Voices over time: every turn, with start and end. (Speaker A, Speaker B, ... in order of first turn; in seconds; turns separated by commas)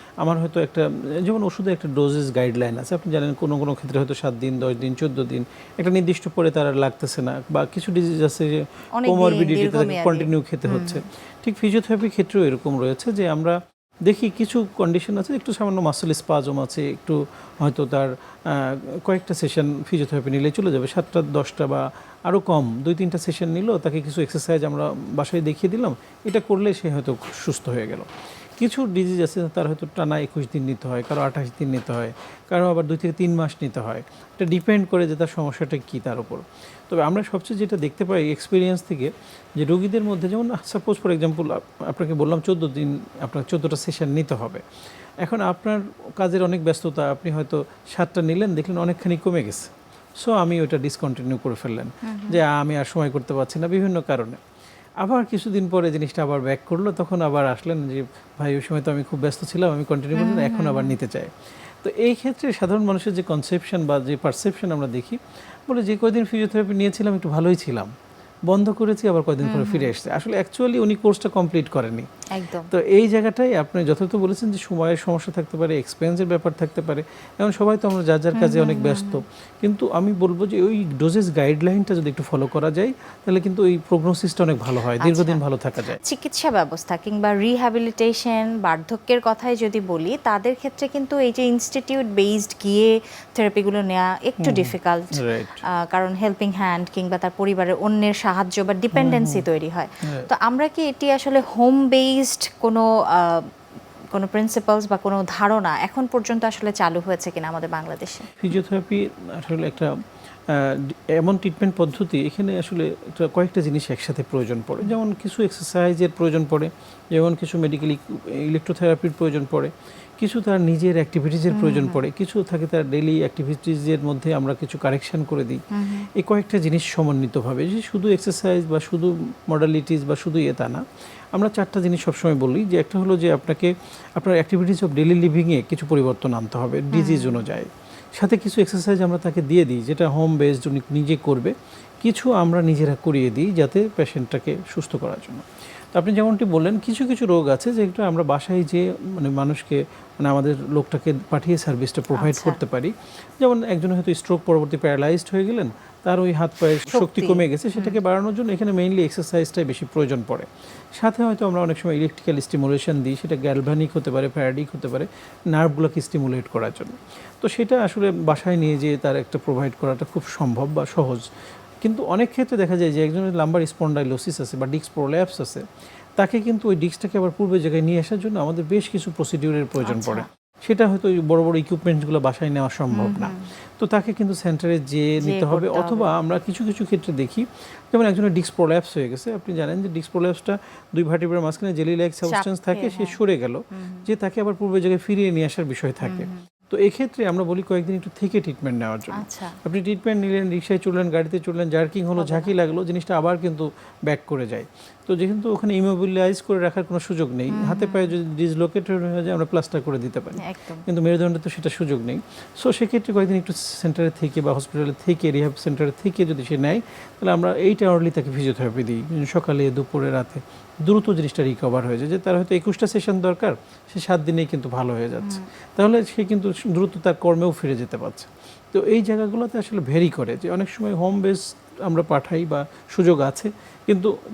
Speaker A: 0.2-8.5, Speaker B: 9.0-11.0, Speaker A: 9.1-13.6, Speaker A: 14.1-44.6, Speaker A: 45.2-49.7, Speaker A: 50.2-54.4, Speaker B: 52.0-52.4, Speaker A: 55.0-61.3, Speaker B: 60.1-61.0, Speaker A: 61.8-67.9, Speaker A: 68.5-72.1, Speaker B: 69.4-69.9, Speaker B: 72.3-72.7, Speaker A: 72.7-86.0, Speaker B: 78.3-79.2, Speaker B: 84.8-85.4, Speaker B: 85.9-95.1, Speaker A: 94.4-95.6, Speaker B: 95.8-103.5, Speaker A: 99.0-99.5, Speaker B: 104.1-108.3, Speaker A: 108.4-109.9, Speaker A: 110.5-125.6, Speaker B: 121.5-122.0, Speaker B: 125.7-126.1, Speaker A: 126.2-130.8, Speaker A: 131.3-171.2, Speaker B: 136.9-137.4, Speaker B: 152.1-152.6, Speaker B: 156.9-158.0, Speaker A: 171.8-175.6, Speaker A: 176.2-234.1, Speaker B: 179.8-180.2, Speaker B: 182.9-183.4, Speaker B: 185.2-186.1, Speaker B: 192.3-193.2, Speaker B: 193.7-194.1, Speaker B: 196.0-196.4, Speaker B: 199.2-199.6, Speaker B: 202.2-202.5, Speaker B: 207.5-208.1, Speaker B: 210.4-210.8